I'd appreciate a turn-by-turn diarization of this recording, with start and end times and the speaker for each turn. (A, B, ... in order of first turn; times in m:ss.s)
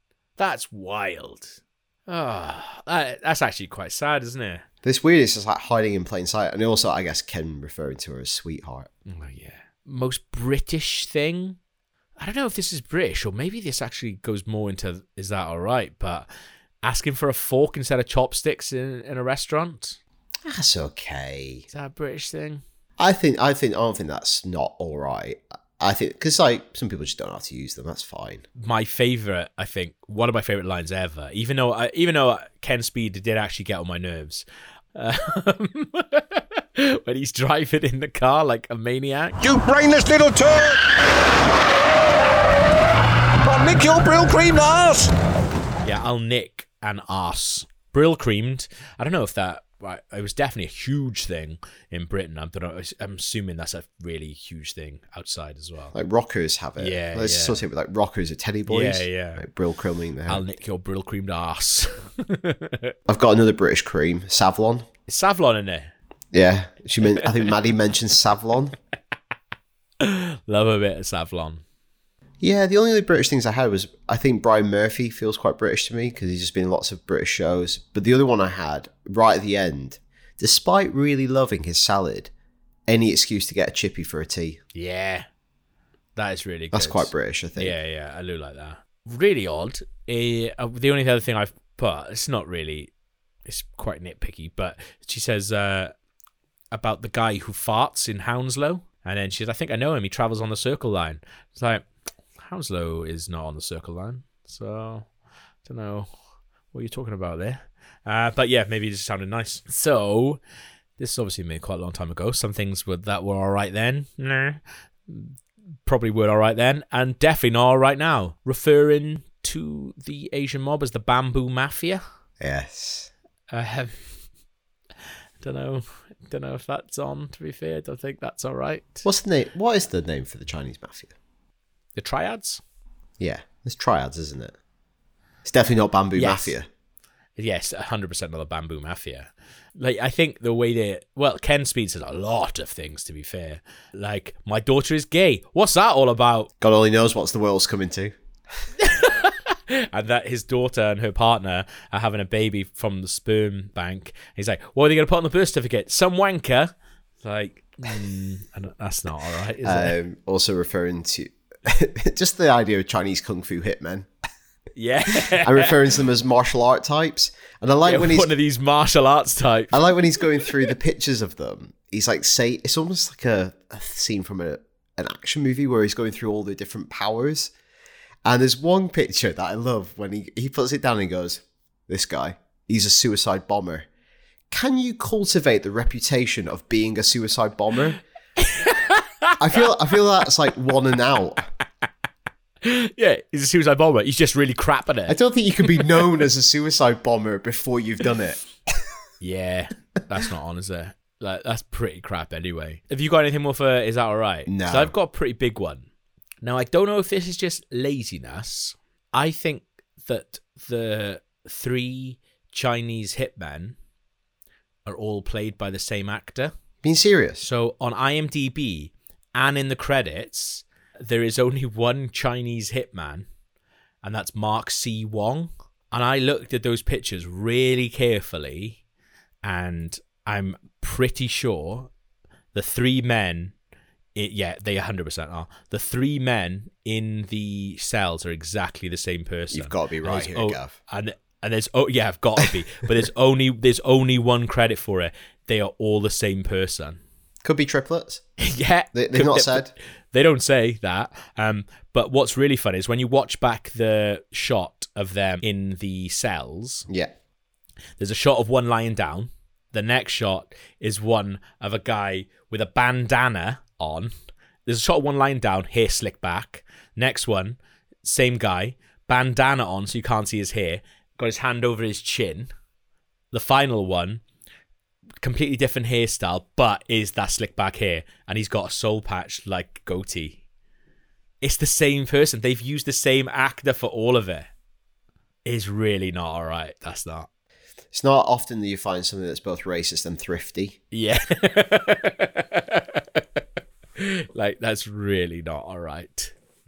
0:00.4-0:04.6 A
0:04.8-0:08.9 B
0:09.1-0:11.6 A
0:12.2-0:16.3 A
0:16.8-0:20.0 A
0:20.5-0:21.7 B
0:21.7-0:22.6 A
0:23.0-0:28.4 B
0:28.6-0:39.4 A
0:39.4-0:41.0 C
0:43.4-0:45.1 C
0:45.8-0:56.0 A
0:55.9-1:00.4 B
0:56.8-0:57.6 A
0:58.7-0:59.4 A
1:00.3-1:02.9 A
1:03.1-1:04.9 B
1:05.1-1:05.9 A
1:06.3-1:08.8 B
1:10.0-1:11.6 A
1:12.4-1:22.3 B
1:22.9-1:24.6 B
1:24.8-1:25.3 A
1:26.2-1:32.9 A
1:26.7-1:27.8 B
1:33.5-1:35.9 A
1:36.7-1:41.9 A
1:42.4-1:45.1 A
1:45.6-1:46.1 A
1:46.7-1:50.4 A
1:51.0-2:02.0 A
2:02.4-2:03.1 B
2:03.5-2:04.2 A
2:05.4-2:09.1 A
2:09.0-2:11.1 B
2:12.0-2:12.6 A
2:13.2-2:14.6 B
2:15.4-2:16.7 B
2:16.2-2:16.6 A
2:17.4-2:26.5 A
2:26.6-2:28.2 B
2:28.8-2:40.0 A
2:39.6-2:44.1 B
2:44.8-2:45.8 A
2:45.2-2:48.3 B
2:47.9-2:49.9 A
2:49.7-2:57.5 B
2:58.2-3:03.9 B
3:04.5-3:08.0 B
3:08.4-3:09.4 A
3:09.4-3:11.5 B
3:12.6-3:15.2 A
3:15.1-3:18.4 B
3:19.2-3:25.9 A
3:24.5-3:24.9 B
3:26.4-3:33.8 A
3:34.9-3:36.5 A
3:36.8-3:37.4 B
3:37.4-3:43.3 A
3:44.0-3:48.8 A
3:49.4-3:51.9 A
3:52.5-3:53.5 A
3:54.2-4:07.0 A
3:59.5-4:00.8 B
4:07.4-4:08.2 B
4:08.4-4:16.9 A
4:08.9-4:09.7 B
4:18.0-4:24.1 A
4:24.7-4:32.5 A
4:33.3-4:34.2 A
4:35.2-4:40.4 A
4:41.4-4:44.5 A
4:45.4-4:47.3 A
4:47.9-4:50.8 B
4:50.9-4:53.2 A
4:54.0-4:56.3 A